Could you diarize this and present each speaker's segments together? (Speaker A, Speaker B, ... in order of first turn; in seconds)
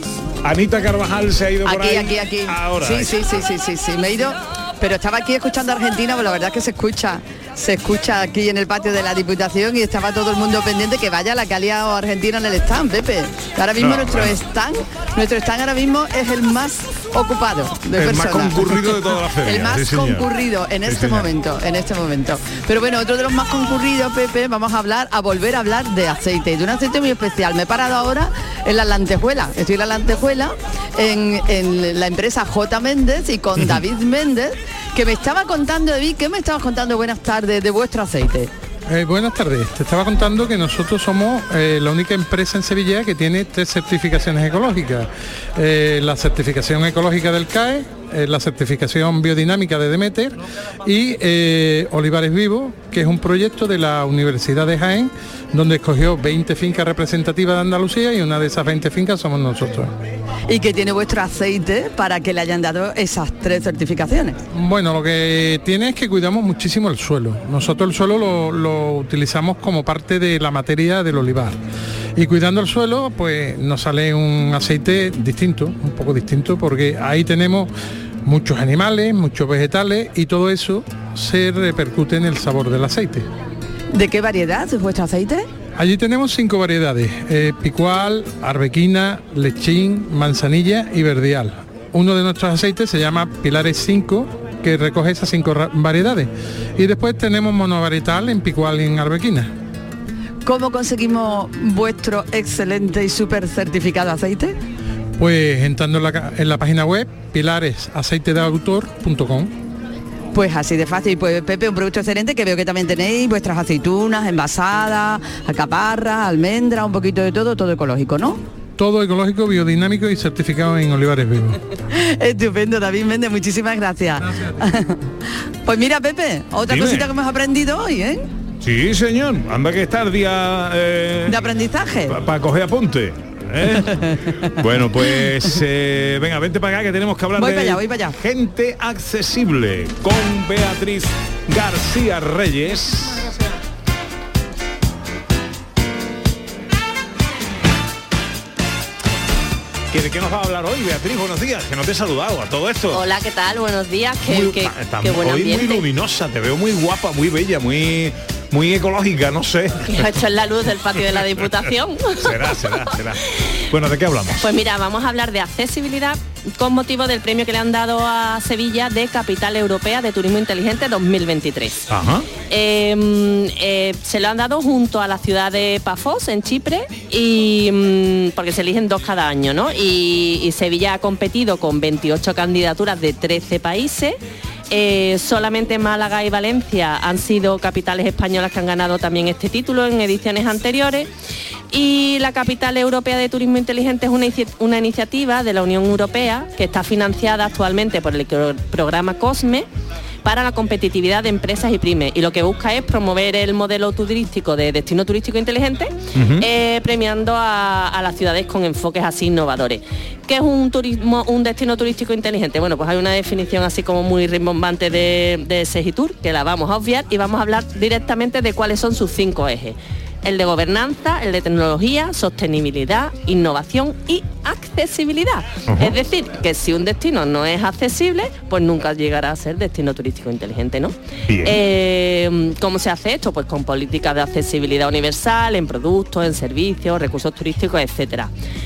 Speaker A: 0.4-3.4, 13.8-14.3, 18.0-20.3, 20.8-21.3, 126.7-127.1, 128.6-131.5, 132.1-133.9, 134.6-143.2, 149.9-153.1, 154.3-160.0, 162.2-164.4, 171.9-172.3, 206.1-206.4, 225.7-225.9, 231.3-231.6
Speaker B: 1.6-38.5, 60.5-64.4, 83.9-85.5, 100.5-104.6, 110.3-118.4, 121.9-125.0, 125.6-128.2, 131.2-132.1, 133.7-134.3, 137.3-138.1
Speaker C: 38.9-59.9, 64.5-71.6, 72.2-77.7, 78.2-83.3, 85.8-99.5, 105.2-109.5, 118.8-121.6
Speaker D: 152.9-155.8, 159.8-162.5, 164.4-171.8, 172.5-184.2, 184.7-191.1, 191.7-199.7, 200.2-238.3